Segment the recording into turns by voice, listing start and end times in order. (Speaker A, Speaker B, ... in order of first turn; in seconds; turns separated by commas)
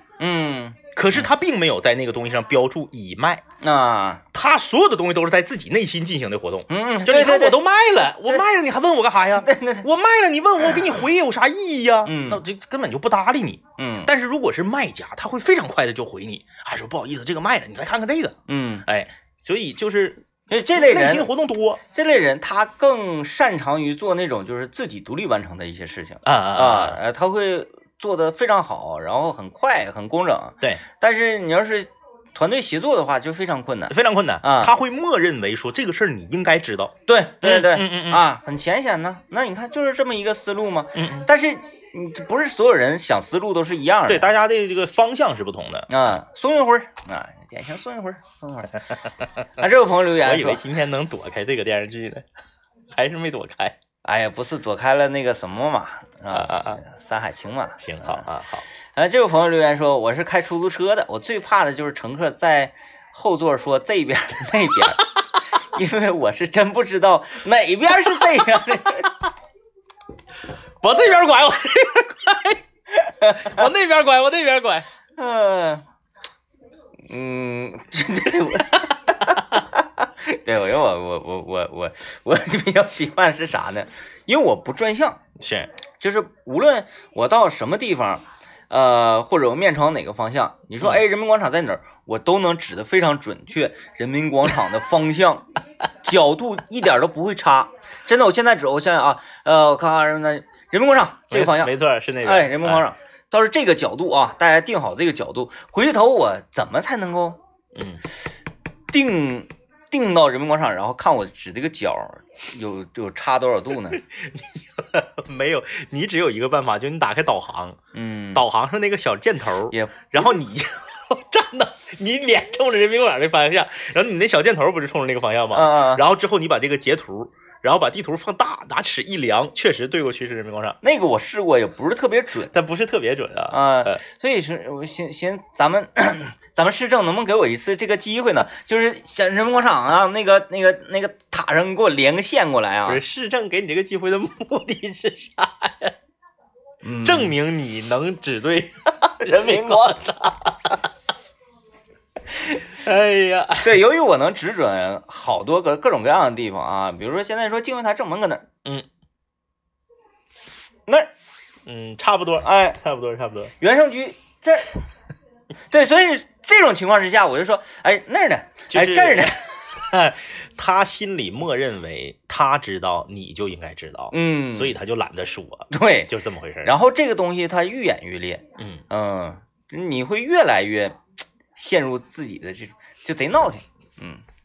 Speaker A: 0.2-1.3, Speaker B: 0.9-3.4, Speaker A: 3.6-4.2, Speaker B: 4.3-21.8, Speaker A: 6.7-7.6, Speaker A: 9.4-9.8, Speaker A: 12.1-12.4, Speaker A: 13.8-14.1, Speaker A: 18.5-18.8, Speaker A: 20.5-21.3, Speaker A: 21.9-34.7, Speaker B: 26.2-27.0, Speaker B: 33.9-38.2, Speaker A: 37.1-44.3, Speaker B: 40.9-41.3, Speaker B: 44.1-45.9, Speaker A: 45.9-48.8, Speaker A: 49.6-50.6, Speaker B: 50.2-52.2, Speaker B: 52.9-53.8, Speaker A: 54.0-58.3, Speaker B: 56.3-56.8, Speaker B: 57.8-58.6, Speaker A: 58.9-69.2, Speaker B: 70.8-72.6, Speaker A: 72.9-73.7, Speaker B: 73.3-74.8, Speaker A: 75.2-75.8, Speaker A: 77.1-85.2, Speaker B: 85.4-85.7, Speaker A: 86.0-95.5, Speaker A: 96.0-107.4, Speaker B: 101.3-102.8, Speaker B: 107.7-108.0, Speaker A: 108.9-114.0, Speaker B: 113.9-117.8, Speaker A: 117.9-118.4, Speaker B: 118.3-130.8, Speaker A: 119.7-120.1, Speaker A: 125.5-126.0, Speaker A: 130.8-132.5, Speaker B: 132.5-134.0, Speaker A: 133.5-143.0, Speaker B: 142.8-145.9, Speaker A: 146.8-147.3, Speaker B: 147.0-150.8, Speaker A: 149.1-150.3, Speaker B: 152.6-153.8, Speaker A: 153.6-158.4, Speaker B: 161.7-163.5, Speaker A: 162.4-162.8, Speaker A: 163.6-164.8, Speaker A: 165.7-169.4, Speaker B: 168.7-176.7, Speaker A: 174.1-174.8, Speaker A: 175.7-176.1, Speaker A: 176.6-181.0, Speaker B: 178.6-178.8, Speaker A: 181.5-184.2